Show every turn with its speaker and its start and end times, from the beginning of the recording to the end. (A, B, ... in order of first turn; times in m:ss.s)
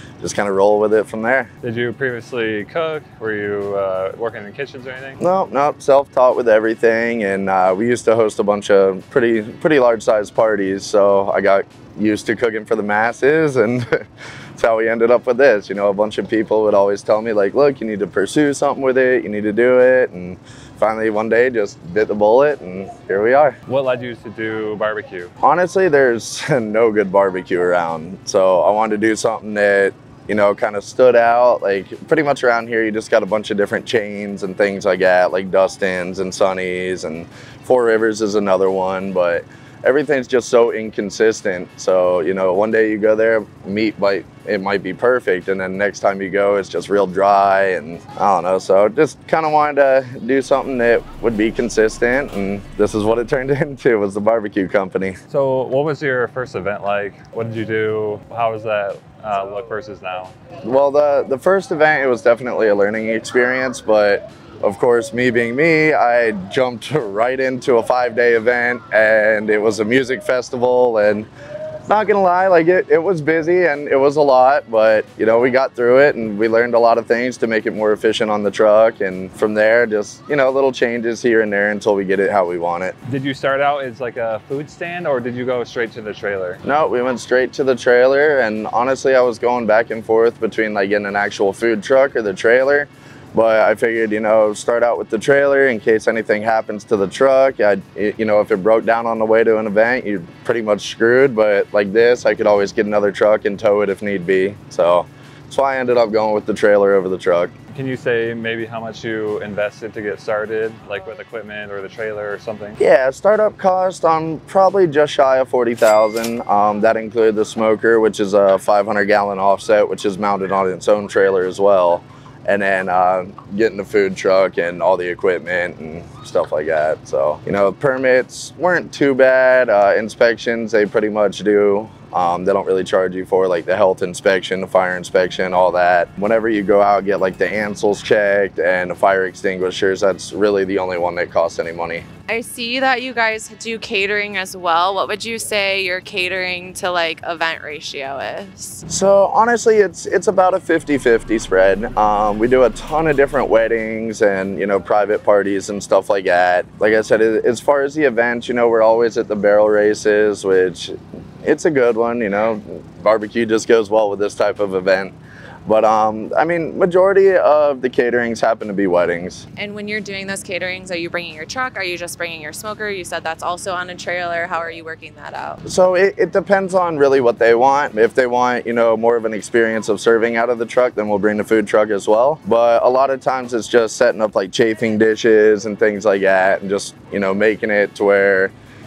0:00.2-0:01.5 A
0:01.6-0:05.2 B
0:05.2-0:14.0 A
0:14.6-0:23.6 A
0:23.7-0:25.3 B
0:25.4-0:55.2 A
0:55.3-1:00.3 B
1:00.6-1:11.3 A
1:11.9-1:23.0 A
1:23.1-1:26.6 B
1:26.6-1:47.5 A
1:47.7-1:52.8 B
1:52.8-2:22.0 A
2:22.3-2:28.8 C
2:28.9-2:49.5 A
2:49.6-2:55.6 C
2:55.7-3:08.5 A